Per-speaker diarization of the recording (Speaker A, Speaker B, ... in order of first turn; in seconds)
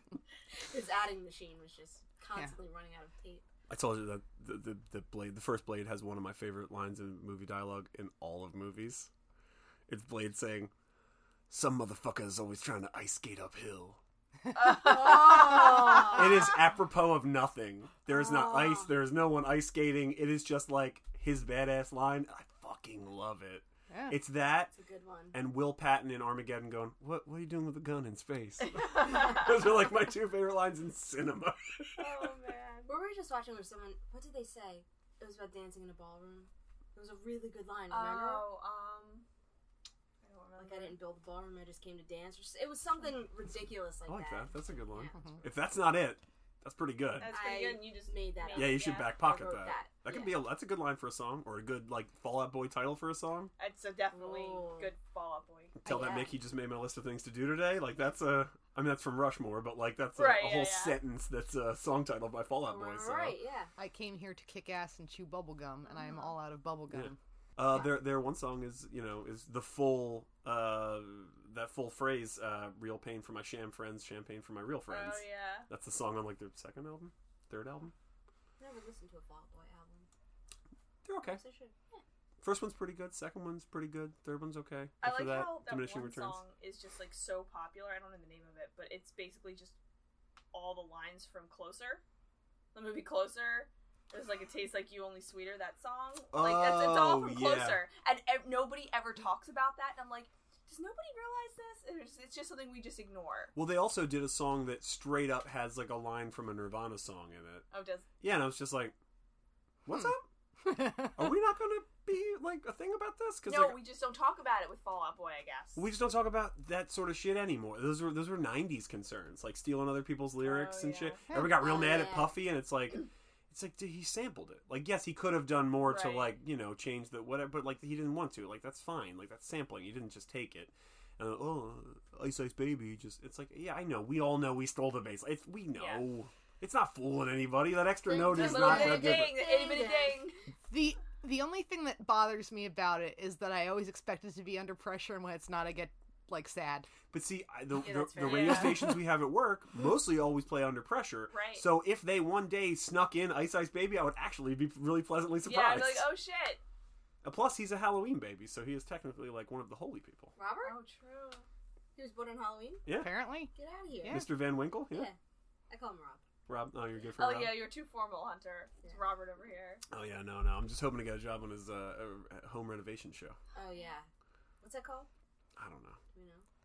Speaker A: 0.6-3.5, 14.7-16.4, 18.1-18.9, 24.7-25.4, 32.9-38.5, 40.6-45.1, 47.2-50.4, 54.1-54.9, 55.9-56.3, 62.6-63.7, 78.6-80.1, 81.2-82.0, 121.6-122.4, 138.1-140.3, 147.8-148.7, 160.4-160.8, 162.0-162.9, 163.5-164.3, 164.9-165.2, 165.7-166.2, 173.6-174.1, 174.6-175.1, 176.1-176.4
Speaker B: 3.7-9.1, 9.9-10.7, 11.5-14.0, 15.9-24.7, 25.3-32.3, 44.1-47.3, 48.5-53.5, 55.8-63.4, 66.9-77.9, 81.0-81.4, 82.4-86.4, 96.3-97.8, 103.5-107.7, 108.2-109.0, 109.8-113.8, 115.8-139.4, 147.1-156.1, 157.2-160.3, 162.8-163.1, 164.1-165.1, 166.5-167.6, 169.9-173.4, 175.6-176.0
Speaker C: 14.5-15.9, 32.0-32.9, 37.9-39.3, 40.2-41.0, 47.2-49.1, 53.6-55.8, 60.2-61.0, 74.9-75.7, 85.0-89.8, 90.5-92.0, 92.7-103.5, 107.7-108.1, 113.5-115.8, 120.4-121.2, 125.8-126.3, 135.7-136.0, 138.3-140.4, 148.2-148.8, 151.3-151.7, 155.4-156.6, 160.6-161.5, 167.2-169.8
Speaker D: 23.9-24.2, 63.8-67.2, 110.7-111.1, 121.3-121.6, 140.7-146.9, 163.0-163.5, 164.0-164.3